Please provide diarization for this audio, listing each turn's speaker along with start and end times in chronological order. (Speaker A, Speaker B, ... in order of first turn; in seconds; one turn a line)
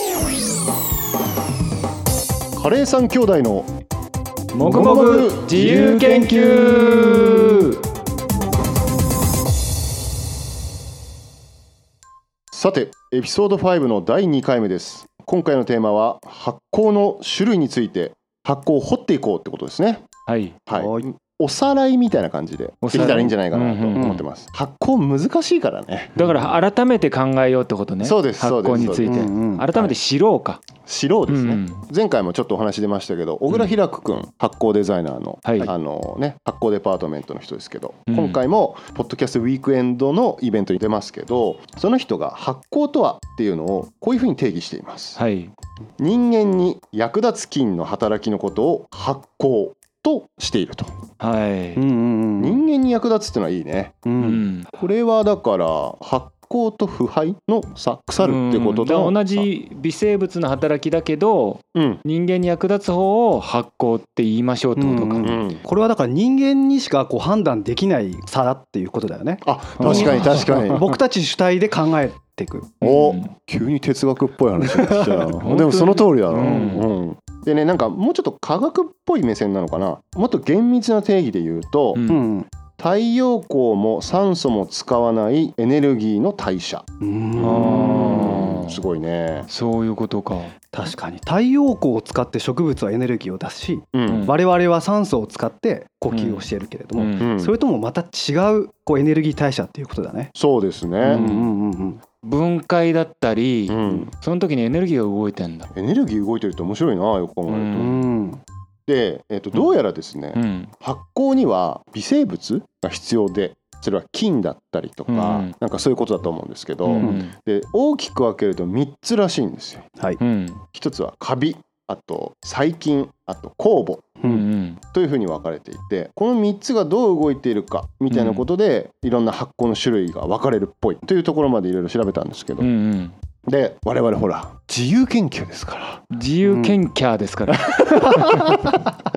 Speaker A: 2.6-3.7
Speaker B: 4.5-7.8
Speaker C: 4.6-7.7
Speaker A: 4.6-6.6
Speaker A: 12.5-20.1
Speaker B: 20.3-20.6
Speaker A: 20.7-26.2
Speaker C: 20.7-21.1
Speaker B: 22.8-24.2
Speaker C: 24.0-24.2
Speaker C: 26.2-26.5
Speaker B: 26.2-30.6
Speaker A: 28.0-29.9
Speaker C: 29.0-29.6
Speaker A: 30.8-45.2
Speaker B: 31.3-31.8
Speaker B: 35.5-35.7
Speaker B: 38.1-38.4
Speaker B: 45.2-45.5
Speaker A: 46.0-50.9
Speaker B: 51.2-51.8
Speaker C: 51.8-52.6
Speaker A: 52.4-54.0
Speaker C: 54.0-54.4
Speaker B: 54.2-54.7
Speaker A: 54.8-59.5
Speaker B: 58.2-65.3
Speaker A: 61.8-62.0
Speaker C: 64.8-72.8
Speaker A: 65.2-65.6
Speaker A: 69.4-70.9
Speaker B: 69.8-70.9
Speaker A: 72.8-82.0
Speaker B: 72.8-73.3
Speaker C: 74.6-75.7
Speaker B: 75.4-76.9
Speaker C: 76.3-76.8
Speaker B: 82.0-82.2
Speaker C: 82.1-82.5
Speaker A: 82.8-86.8
Speaker C: 87.0-88.4
Speaker B: 87.4-88.8
Speaker A: 87.4-89.5
Speaker B: 89.5-90.5
Speaker C: 90.7-100.3
Speaker A: 93.9-94.3
Speaker B: 94.1-94.3
Speaker B: 96.1-96.5
Speaker B: 97.0-97.3
Speaker A: 97.2-97.5
Speaker A: 100.3-101.2
Speaker B: 101.0-101.5
Speaker C: 101.0-102.0
Speaker B: 102.2-105.7
Speaker A: 103.7-104.1
Speaker A: 105.7-108.0
Speaker B: 107.5-108.0
Speaker C: 107.8-108.4
Speaker A: 108.9-119.9
Speaker B: 110.4-110.7
Speaker B: 115.1-115.5
Speaker B: 116.8-117.3
Speaker B: 120.2-120.6
Speaker A: 120.7-124.2
Speaker B: 124.2-124.8
Speaker A: 124.9-132.7
Speaker B: 128.1-128.4
Speaker B: 132.6-133.2
Speaker A: 133.5-136.0
Speaker B: 136.1-138.5
Speaker C: 136.5-136.8
Speaker A: 137.5-138.9